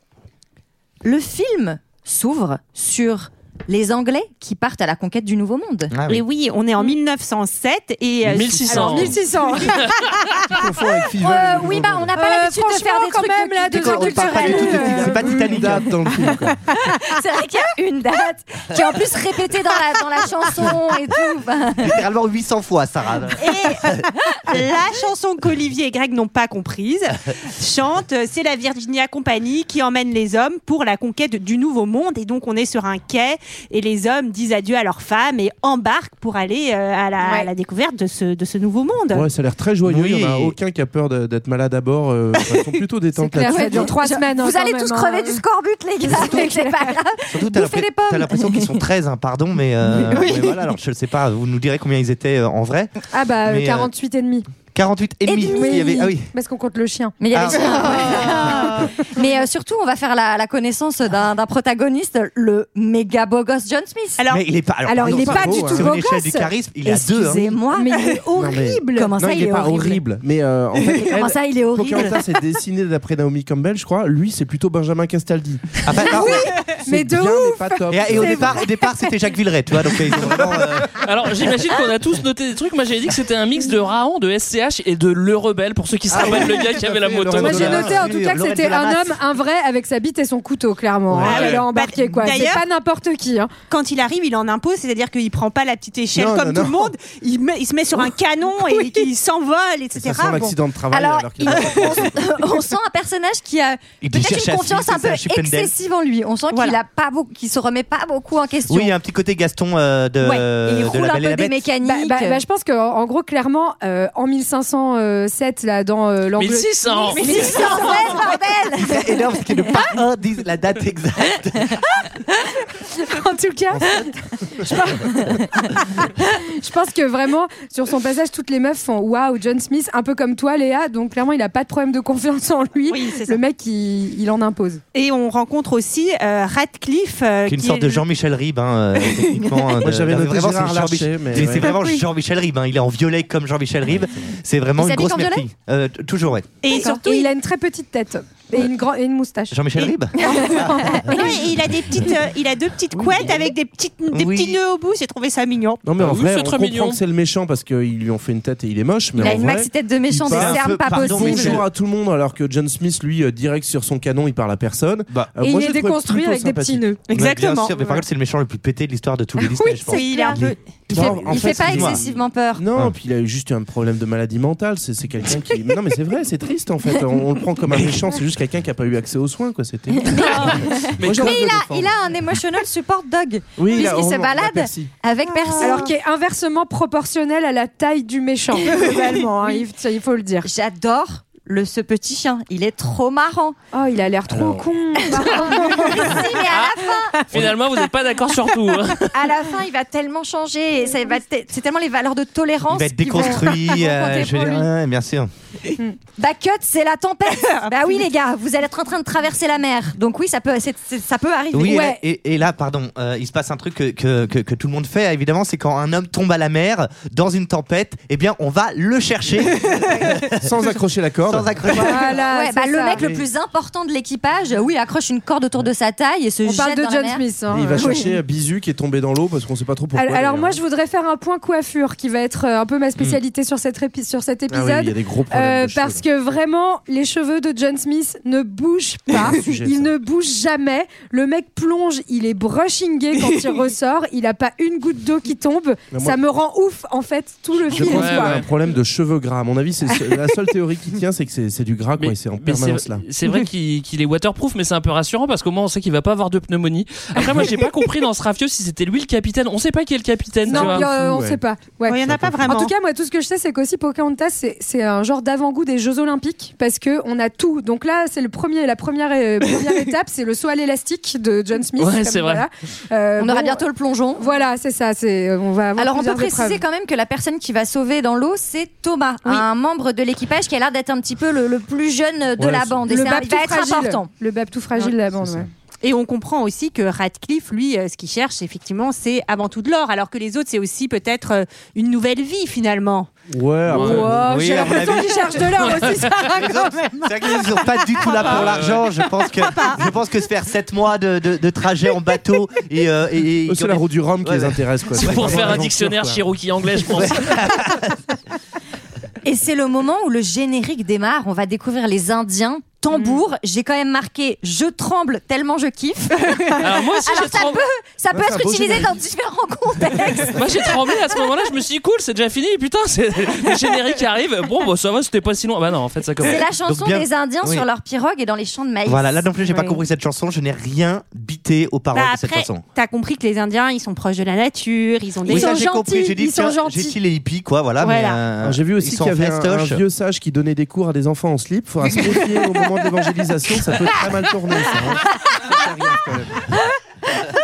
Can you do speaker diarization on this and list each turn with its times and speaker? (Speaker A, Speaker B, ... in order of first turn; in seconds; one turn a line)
Speaker A: 1.0-5.9
Speaker B: 5.9-6.2
Speaker C: 6.1-9.2
Speaker D: 8.3-9.9
Speaker E: 8.4-8.9
Speaker F: 8.7-10.0
Speaker E: 10.5-12.1
Speaker A: 11.2-14.9
Speaker F: 12.1-16.3
Speaker B: 13.7-15.9
Speaker E: 14.8-16.6
Speaker A: 16.8-21.9
Speaker B: 21.8-24.0
Speaker C: 23.4-39.3
Speaker F: 37.2-37.5
Speaker E: 39.1-43.9
Speaker B: 39.8-40.5
Speaker F: 43.1-45.4
Speaker A: 43.4-48.8
Speaker F: 46.0-47.0
Speaker B: 47.3-53.9
Speaker A: 49.9-50.5
Speaker F: 53.1-54.5
Speaker B: 54.7-56.3
Speaker A: 55.3-56.1
Speaker F: 55.3-57.2
Speaker A: 57.2-64.2
Speaker B: 57.3-58.9
Speaker C: 64.2-64.4
Speaker B: 64.3-67.5
Speaker F: 64.8-66.5
Speaker E: 65.0-65.9
Speaker A: 66.8-68.2
Speaker F: 67.3-69.1
Speaker E: 68.3-75.8
Speaker A: 68.9-70.0
Speaker A: 70.8-72.2
Speaker B: 75.8-76.5
Speaker F: 75.9-79.1
Speaker E: 76.8-78.6
Speaker B: 77.9-80.9
Speaker E: 80.2-80.7
Speaker D: 81.0-87.9
Speaker E: 86.1-88.0
Speaker B: 87.3-89.2
Speaker F: 87.4-93.5
Speaker E: 91.1-91.5
Speaker C: 91.2-92.6
Speaker C: 93.7-100.6
Speaker E: 96.1-96.9
Speaker E: 99.9-102.4
Speaker A: 100.9-108.9
Speaker B: 104.0-105.7
Speaker C: 106.5-106.8
Speaker B: 108.7-111.6
Speaker A: 110.2-112.4
Speaker F: 111.8-118.4
Speaker D: 116.4-117.2
Speaker A: 117.1-119.2
Speaker B: 118.8-121.8
Speaker F: 122.9-134.8
Speaker C: 132.9-133.4
Speaker C: 134.9-138.0
Speaker B: 137.5-146.6
Speaker E: 139.8-141.8
Speaker A: 144.8-145.4
Speaker C: 146.6-147.3
Speaker F: 146.7-151.4
Speaker B: 149.5-151.5
Speaker A: 150.5-151.2
Speaker C: 151.1-155.8
Speaker E: 153.0-153.3
Speaker B: 154.1-154.6
Speaker E: 155.8-166.8
Speaker D: 156.0-157.0
Speaker A: 159.2-161.6
Speaker B: 160.3-161.7
Speaker F: 165.4-167.0
Speaker C: 167.1-168.0
Speaker B: 167.1-172.0
Speaker F: 169.4-170.4
Speaker C: 169.8-170.6
Speaker A: 170.9-172.6
Speaker E: 170.9-181.9
Speaker A: 180.0-185.9
Speaker D: 181.0-181.4
Speaker E: 183.6-184.9
Speaker F: 185.3-190.5
Speaker A: 190.4-193.6
Speaker F: 193.7-196.5
Speaker E: 194.3-194.6
Speaker A: 195.1-197.2
Speaker D: 197.3-199.1
Speaker A: 199.1-204.7
Speaker B: 202.7-205.3
Speaker A: 206.2-211.9
Speaker C: 207.4-208.0
Speaker B: 211.5-220.5
Speaker F: 211.6-212.0
Speaker E: 220.3-221.8
Speaker B: 221.2-222.2
Speaker F: 221.7-223.0
Speaker A: 222.1-227.2
Speaker E: 222.9-223.2
Speaker F: 226.4-228.2
Speaker E: 227.5-230.6
Speaker F: 229.9-248.4
Speaker E: 234.5-236.0
Speaker E: 239.2-239.9
Speaker E: 245.9-246.2
Speaker E: 247.7-253.0
Speaker D: 247.7-248.5
Speaker D: 252.0-260.9
Speaker E: 260.5-261.4
Speaker F: 260.5-273.6
Speaker C: 261.9-262.7
Speaker E: 262.1-262.6
Speaker D: 271.8-272.5
Speaker A: 273.2-274.2
Speaker F: 274.2-276.6
Speaker A: 275.8-284.1
Speaker E: 282.4-282.8
Speaker F: 282.9-285.5
Speaker E: 285.2-285.5
Speaker C: 285.8-293.1
Speaker E: 293.3-294.5
Speaker F: 293.7-296.8
Speaker D: 293.7-294.1
Speaker B: 294.2-295.6
Speaker D: 295.6-296.3
Speaker B: 296.3-305.6
Speaker C: 298.0-298.5
Speaker D: 298.2-298.8
Speaker C: 299.2-299.9
Speaker E: 303.4-306.2
Speaker D: 305.0-307.5
Speaker B: 306.9-307.9
Speaker A: 309.2-320.7
Speaker C: 312.9-313.2
Speaker D: 316.6-317.6
Speaker E: 318.1-319.0
Speaker D: 320.3-326.4
Speaker A: 326.2-329.3
Speaker B: 326.4-327.6
Speaker B: 328.8-332.6
Speaker C: 331.9-335.5
Speaker F: 335.2-336.9
Speaker B: 335.2-339.8
Speaker C: 337.8-338.2
Speaker E: 338.4-346.5